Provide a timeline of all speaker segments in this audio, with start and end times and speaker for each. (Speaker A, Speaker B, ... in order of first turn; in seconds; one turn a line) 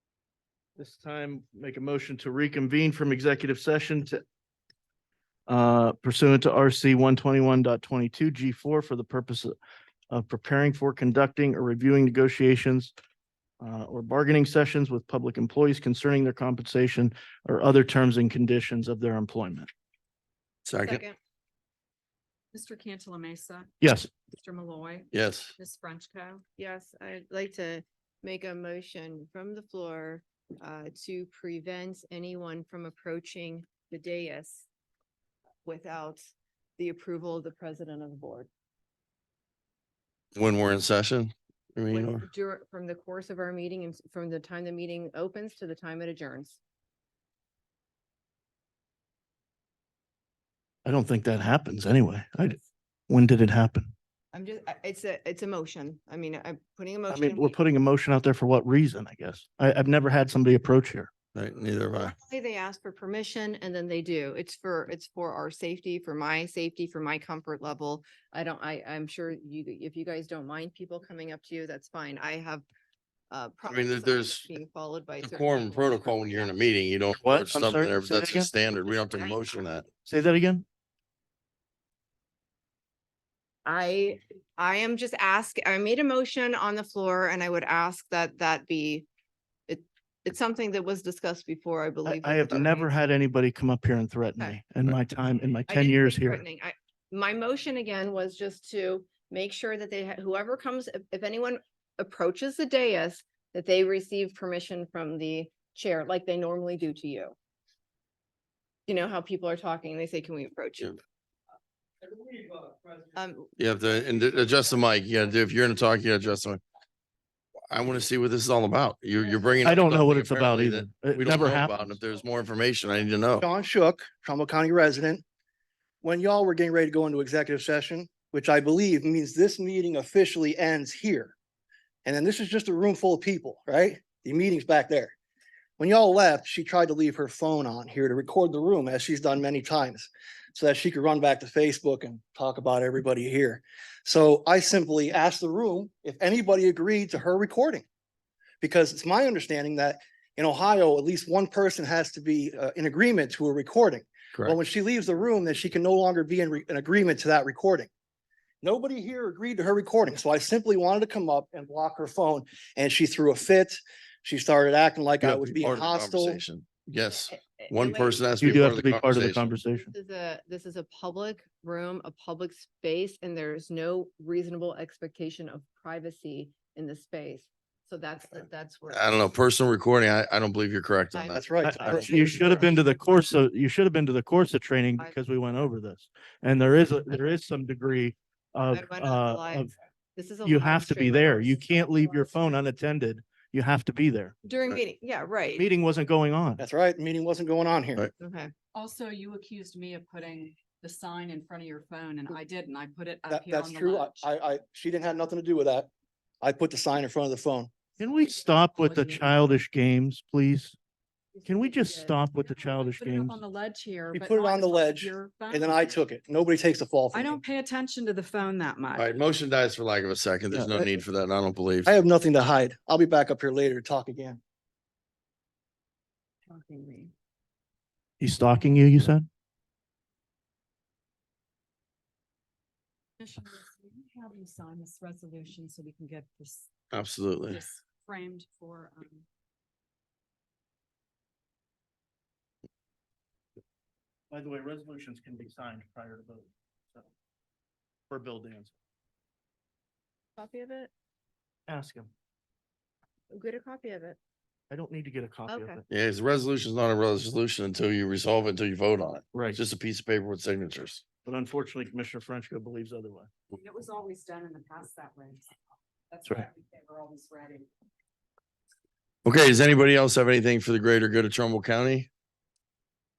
Speaker A: 0.8-4.2
Speaker A: 5.5-9.5
Speaker A: 10.1-12.9
Speaker A: 13.6-19.7
Speaker B: 20.6-21.0
Speaker C: 20.8-21.2
Speaker D: 22.5-23.8
Speaker A: 23.8-24.1
Speaker D: 24.3-26.4
Speaker B: 25.1-25.5
Speaker C: 26.6-34.7
Speaker C: 35.6-36.2
Speaker C: 36.8-38.5
Speaker B: 40.4-42.2
Speaker C: 41.9-46.6
Speaker A: 50.8-52.6
Speaker A: 53.1-53.9
Speaker C: 54.3-57.5
Speaker A: 57.1-61.1
Speaker B: 61.3-62.1
Speaker C: 62.0-72.7
Speaker C: 73.3-76.5
Speaker B: 73.7-74.5
Speaker B: 75.2-79.9
Speaker A: 77.1-78.5
Speaker A: 80.0-80.6
Speaker C: 83.6-89.1
Speaker C: 89.7-92.9
Speaker A: 92.0-96.4
Speaker C: 95.7-107.3
Speaker C: 108.9-111.0
Speaker C: 113.1-113.5
Speaker B: 113.6-116.6
Speaker B: 117.7-123.5
Speaker A: 119.6-122.0
Speaker E: 123.4-125.2
Speaker E: 126.0-131.3
Speaker E: 132.1-135.2
Speaker E: 135.8-147.8
Speaker E: 148.6-157.9
Speaker E: 158.6-166.4
Speaker B: 165.2-169.5
Speaker C: 167.4-168.7
Speaker A: 168.4-169.9
Speaker C: 169.7-179.1
Speaker B: 178.9-182.6
Speaker C: 181.1-183.0
Speaker E: 181.3-182.6
Speaker A: 181.6-189.7
Speaker C: 188.7-192.4
Speaker A: 190.4-194.3
Speaker C: 194.4-195.7
Speaker A: 195.6-196.6
Speaker E: 196.6-198.1
Speaker C: 198.2-198.5
Speaker D: 198.8-204.3
Speaker E: 203.3-205.9
Speaker E: 206.4-207.7
Speaker A: 208.0-210.8
Speaker D: 208.8-209.3
Speaker A: 211.5-213.4
Speaker D: 212.9-216.0
Speaker E: 214.1-217.4
Speaker D: 217.1-219.1
Speaker B: 219.0-221.9
Speaker E: 220.5-221.0
Speaker E: 221.9-224.4
Speaker D: 226.5-227.1
Speaker A: 228.2-229.3
Speaker D: 233.2-236.7
Speaker B: 236.9-237.6
Speaker D: 237.5-239.2
Speaker A: 244.3-247.1
Speaker A: 248.1-248.7
Speaker C: 250.4-250.9
Speaker A: 251.7-252.1
Speaker C: 253.3-254.2
Speaker A: 254.7-255.9
Speaker C: 255.5-255.8
Speaker B: 255.9-261.1
Speaker A: 259.3-259.6
Speaker A: 261.2-263.3
Speaker D: 263.5-265.6
Speaker D: 266.1-267.7
Speaker B: 269.2-272.1